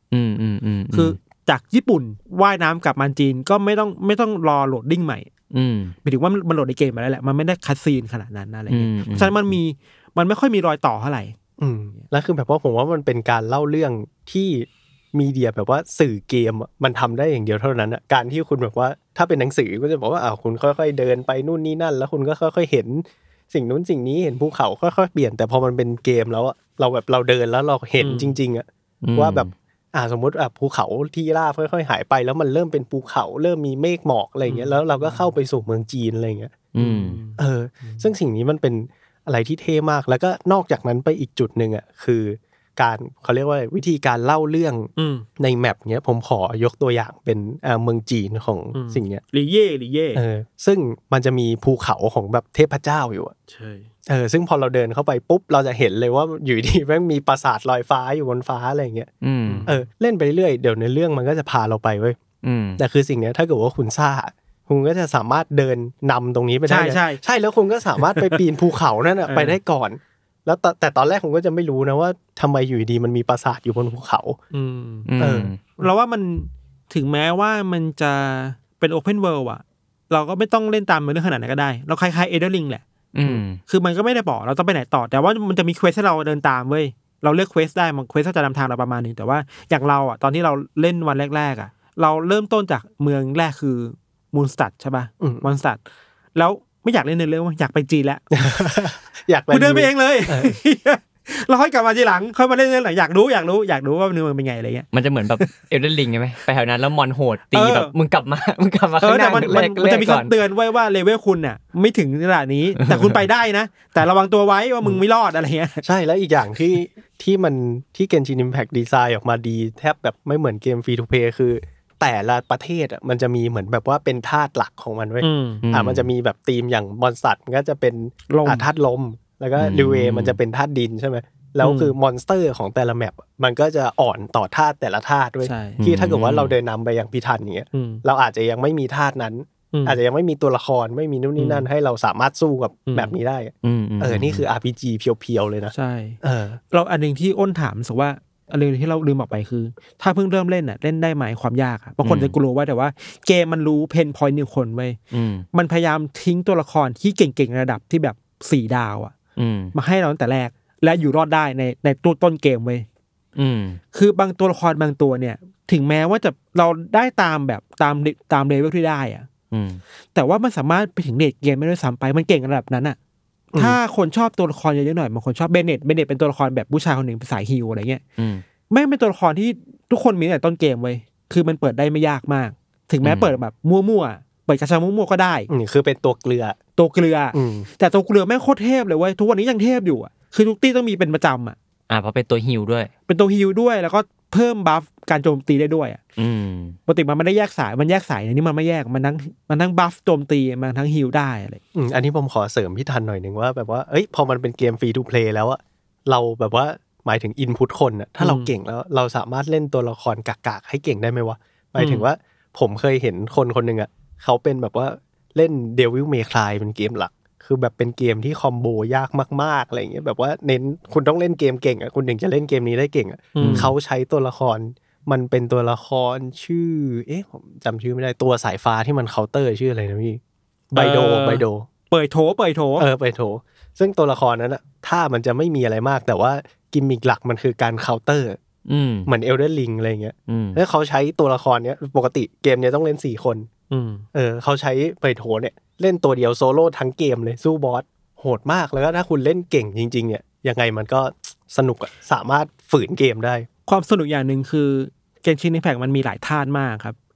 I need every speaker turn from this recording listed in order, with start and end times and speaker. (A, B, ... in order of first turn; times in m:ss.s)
0:00.1-0:01.2 A
0:00.9-0:05.3 B
0:05.5-0:05.9 A
0:06.0-0:11.4 B
0:08.7-0:09.4 A
0:11.6-0:36.7 C
0:28.0-0:28.4 B
0:29.0-0:29.5 A
0:34.4-0:35.2 B
0:36.7-0:37.2 A
0:36.8-0:38.1 B
0:37.4-0:49.2 C
0:45.0-0:45.2 B
0:48.7-0:50.2 B
0:50.1-0:53.3 C
0:53.5-0:53.9 B
0:54.0-0:59.1 C
0:59.2-0:59.6 A
0:59.5-0:59.8 B
0:59.6-1:02.2 C
1:02.4-1:02.8 A
1:02.8-1:14.4 C
1:06.7-1:07.2 B
1:09.2-1:09.6 B
1:14.5-1:15.1 B
1:15.1-1:15.6 A
1:15.2-1:15.5 C
1:15.8-1:22.8 B
1:23.1-1:23.6 A
1:23.7-1:35.8 B
1:35.2-1:35.5 C
1:36.3-1:38.8 B
1:38.3-1:40.6 C
1:39.5-1:44.8 B
1:44.9-1:50.3 A
1:47.5-1:47.9 B
1:49.0-1:55.8 B
1:52.8-1:53.2 A
1:55.8-2:26.6 C
2:05.2-2:05.6 B
2:05.6-2:06.1 A
2:08.3-2:08.6 B
2:09.6-2:10.4 A
2:11.6-2:11.9 B
2:15.4-2:15.8 B
2:15.8-2:16.5 A
2:17.7-2:18.0 B
2:19.7-2:20.0 B
2:21.4-2:21.6 B
2:22.9-2:23.2 B
2:23.6-2:24.4 A
2:25.7-2:26.2 B
2:26.7-2:35.0 B
2:32.0-2:32.4 A
2:35.1-2:35.4 A
2:35.5-2:39.1 B
2:39.4-2:39.7 A
2:39.7-2:42.8 B
2:43.4-2:43.8 A
2:43.9-2:49.3 B
2:49.5-2:49.8 A
2:50.1-2:53.0 B
2:53.5-2:53.8 C
2:53.6-2:58.0 B
2:58.2-2:58.4 A
2:58.7-3:05.5 B
3:03.0-3:03.4 A
3:05.5-3:06.6 C
3:06.8-3:11.6 B
3:07.3-3:07.7 C
3:11.9-3:12.9 A
3:13.1-3:16.0 B
3:16.2-3:16.8 A
3:16.9-3:21.6 B
3:21.7-3:50.2 C
3:28.2-3:28.5 B
3:31.8-3:32.0 B
3:43.3-3:43.7 B
3:43.4-3:43.7 A
3:50.7-3:51.7 C
3:50.7-3:52.9 B
3:52.8-3:58.4 C
3:58.7-3:59.1 A
3:59.0-4:03.5 C
4:00.3-4:00.6 A
4:03.7-4:04.0 B
4:04.1-4:13.5 C
4:13.7-4:17.0 B